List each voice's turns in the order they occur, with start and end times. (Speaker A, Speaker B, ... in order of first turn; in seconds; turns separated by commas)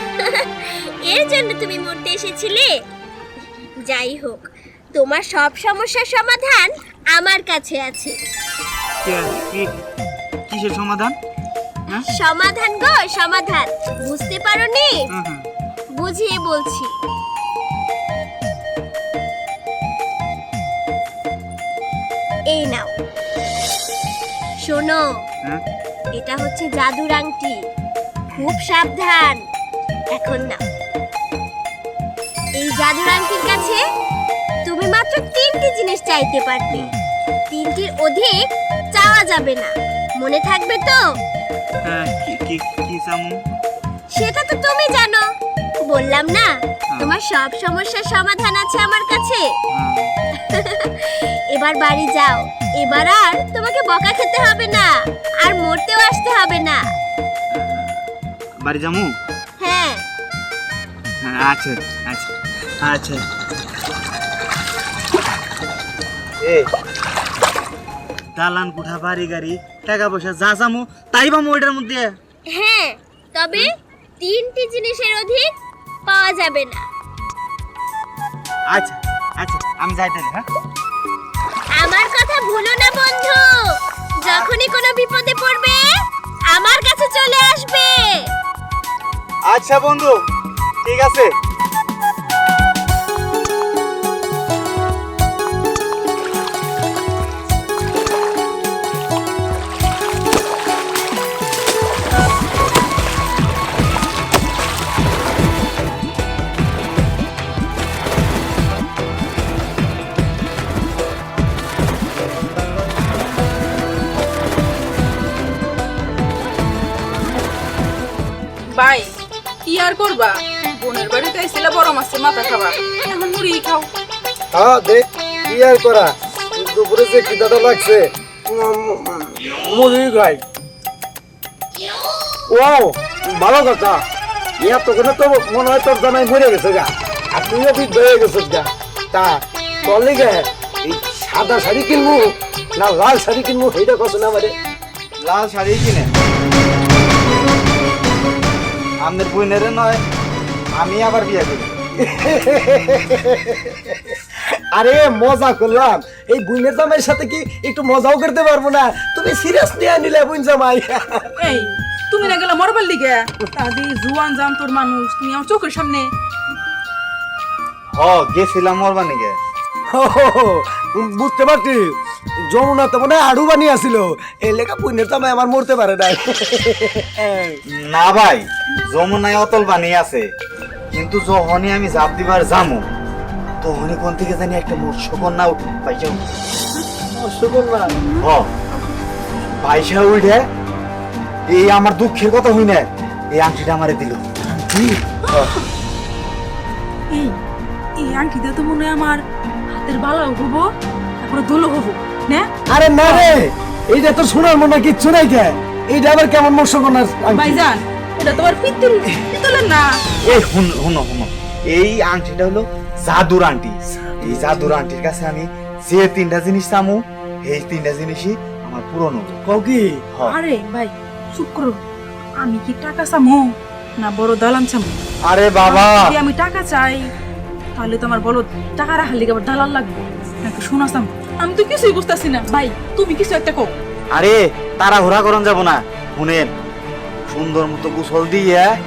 Speaker A: 0.2-2.7, Speaker A: 3.8-8.2, Speaker B: 9.0-9.7, Speaker B: 10.5-11.2, Speaker A: 11.9-15.0, Speaker B: 15.1-15.4, Speaker A: 15.9-16.9, Speaker A: 22.5-22.9, Speaker A: 24.6-25.0, Speaker A: 26.1-27.6, Speaker A: 28.3-29.4, Speaker A: 30.1-30.6, Speaker A: 32.6-33.8, Speaker A: 34.6-36.9, Speaker A: 37.5-38.4, Speaker A: 38.9-41.0, Speaker B: 41.8-43.4, Speaker A: 44.1-45.2, Speaker A: 45.9-49.5, Speaker B: 46.9-47.2, Speaker B: 49.7-50.1, Speaker A: 50.5-54.9, Speaker A: 55.4-56.8, Speaker B: 57.5-58.0, Speaker B: 58.6-59.1, Speaker A: 59.6-60.0, Speaker B: 61.2-63.2, Speaker B: 66.4-66.7, Speaker B: 68.3-72.1, Speaker A: 72.5-73.7, Speaker A: 74.2-75.5, Speaker A: 76.0-76.8, Speaker B: 78.7-80.5, Speaker A: 81.8-85.9, Speaker B: 84.2-84.5, Speaker A: 86.5-88.3, Speaker B: 89.5-90.1, Speaker B: 90.8-91.3, Speaker C: 118.7-119.1, Speaker C: 119.6-123.9, Speaker D: 124.5-130.4, Speaker D: 132.5-134.0, Speaker D: 134.6-144.5, Speaker B: 145.2-146.1, Speaker B: 149.0-150.0, Speaker B: 150.7-151.7, Speaker D: 152.0-161.5, Speaker C: 161.3-166.1, Speaker B: 167.9-169.4, Speaker D: 169.9-171.9, Speaker D: 172.5-177.6, Speaker B: 177.7-180.3, Speaker B: 180.9-182.9, Speaker B: 183.6-186.4, Speaker D: 187.0-187.9, Speaker B: 188.2-188.5, Speaker B: 189.6-190.4, Speaker B: 191.5-194.2, Speaker D: 194.5-195.0, Speaker C: 195.2-195.6, Speaker B: 195.3-195.5, Speaker C: 197.1-197.4, Speaker C: 198.0-200.7, Speaker C: 201.2-202.5, Speaker D: 202.7-207.7, Speaker C: 207.3-209.9, Speaker B: 210.2-219.4, Speaker D: 214.2-214.5, Speaker D: 219.4-220.0, Speaker C: 220.3-221.8, Speaker C: 222.4-224.9, Speaker B: 225.2-226.1, Speaker C: 225.6-227.1, Speaker C: 227.7-233.8, Speaker B: 234.1-236.5, Speaker B: 237.3-238.7